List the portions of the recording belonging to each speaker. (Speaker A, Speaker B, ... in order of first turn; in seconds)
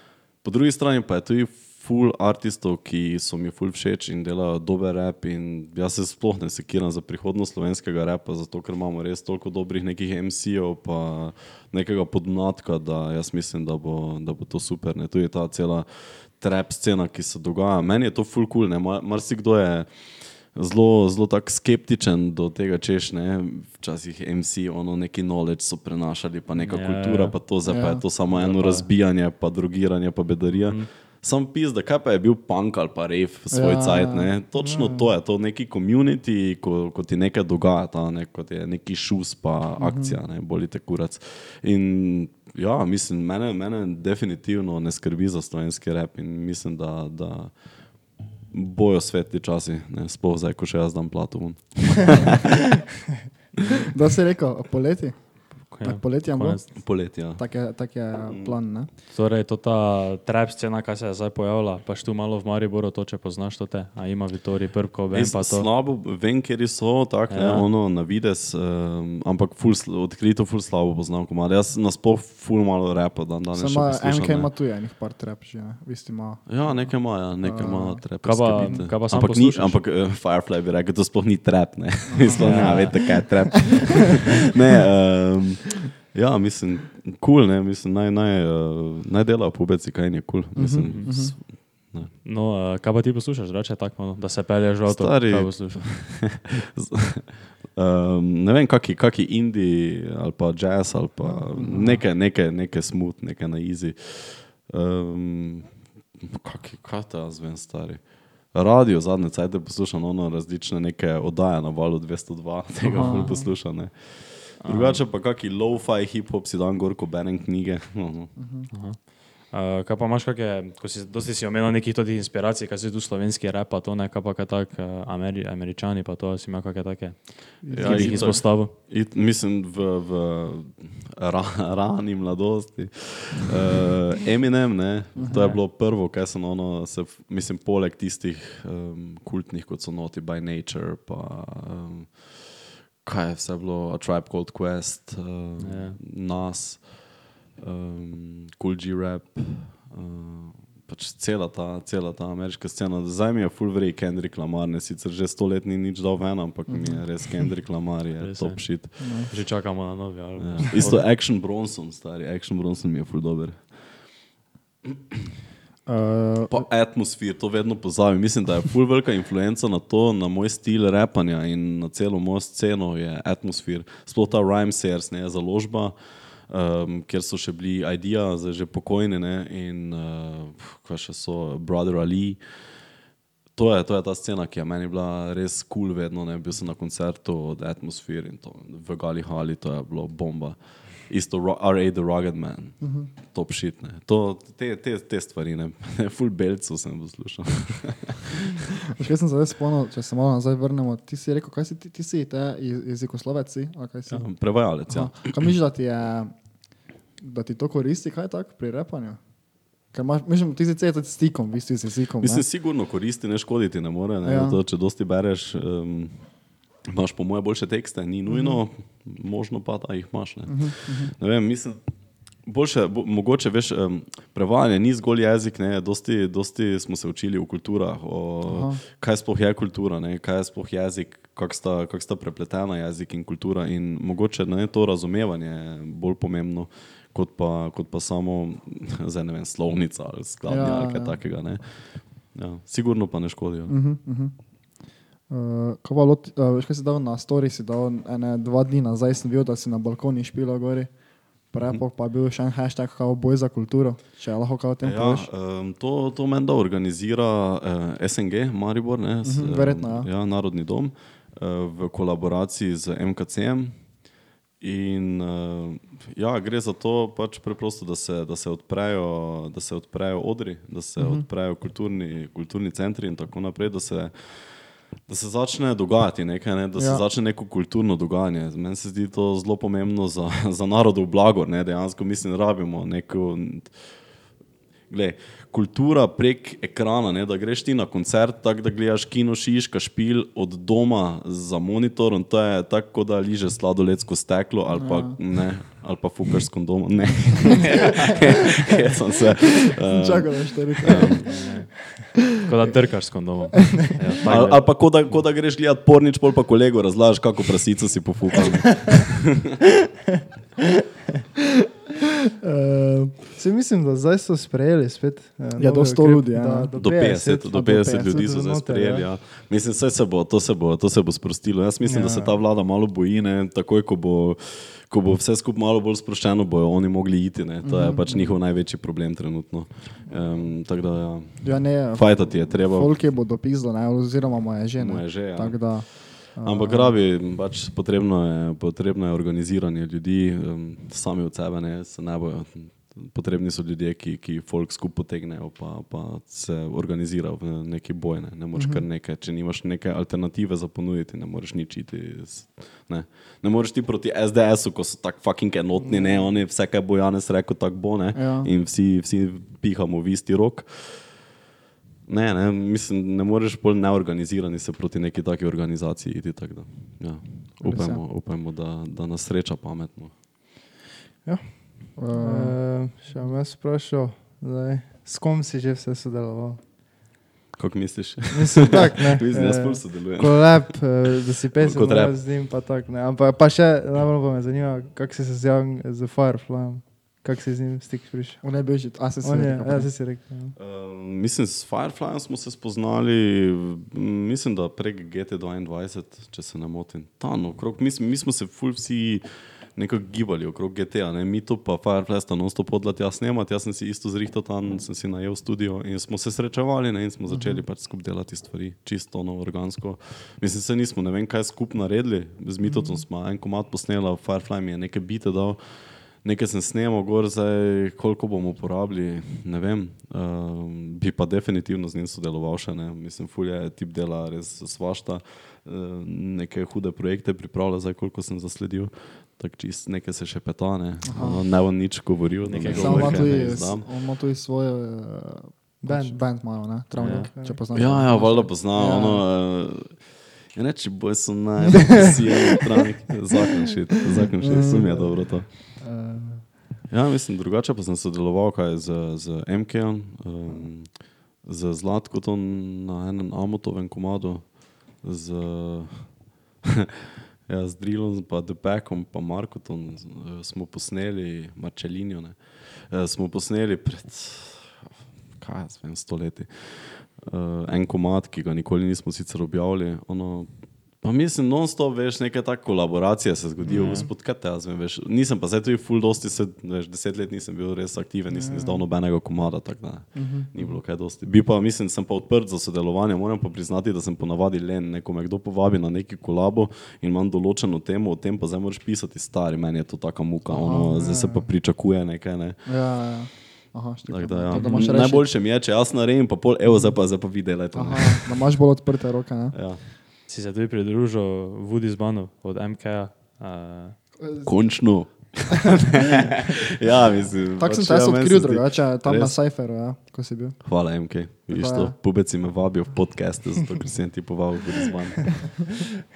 Speaker A: 0.4-52.4, 56.7-57.5, 58.2-58.5, 65.1-74.5, 76.5-92.1, 94.8-118.3, 127.7-158.9, 160.4-163.8, 166.5-182.7, 183.5-198.3, 204.1-205.5, 212.2-243.7, 254.8-263.8, 264.6-283.9, 284.9-301.3, 304.2-309.4, 316.7-333.0, 334.8-361.2, 362.1-370.1, 377.5-381.0, 381.5-382.2, 390.5-433.9, 437.7-445.6, 446.9-456.6, 457.4-464.8, 465.3-492.6, 494.1-498.5, 499.5-499.8, 504.4-509.3, 510.6-515.6
Speaker B: 26.6-27.4, 28.3-28.9, 30.5-30.9, 55.7-56.7, 59.1-65.7, 67.3-67.7, 78.2-79.8, 82.3-83.3, 92.2-96.3, 114.6-115.0, 118.7-128.7, 135.3-135.6, 145.6-146.0, 158.2-161.1, 301.2-305.1, 432.4-433.6, 437.0-437.3, 473.7-474.1, 494.5-494.9, 500.3-504.0
Speaker C: 27.7-28.1, 33.5-34.3, 39.8-40.2, 53.9-58.9, 73.5-78.0, 82.1-83.0, 90.5-91.3, 101.2-102.0, 112.9-113.5, 118.3-118.7, 127.6-128.4, 135.2-135.4, 156.7-157.5, 159.0-159.3, 165.8-166.7, 192.8-193.1, 198.9-206.3, 207.2-209.2, 209.9-212.4, 214.2-214.6, 218.2-218.6, 220.5-221.1, 228.5-228.8, 240.5-241.2, 243.7-255.3, 259.2-260.1, 271.0-271.2, 276.8-277.0, 294.7-295.2, 299.8-301.3, 312.4-313.2, 315.6-318.3, 327.6-328.4, 331.4-337.0, 348.5-348.8, 358.1-358.5, 367.6-368.0, 371.9-373.1, 388.4-389.9, 407.3-407.6, 412.6-413.0, 431.0-431.4, 432.7-439.2, 444.4-446.5, 473.8-474.0, 480.1-480.5, 490.4-490.9, 492.6-495.3, 497.7-499.6, 504.2-504.9, 507.6-510.7, 511.5-511.9
Speaker D: 34.6-35.1, 78.6-78.9, 313.4-317.3, 318.1-319.1, 321.8-322.4, 371.2-376.6, 378.3-390.6, 435.8-437.6, 444.4-445.2, 478.3-478.8, 490.9-491.4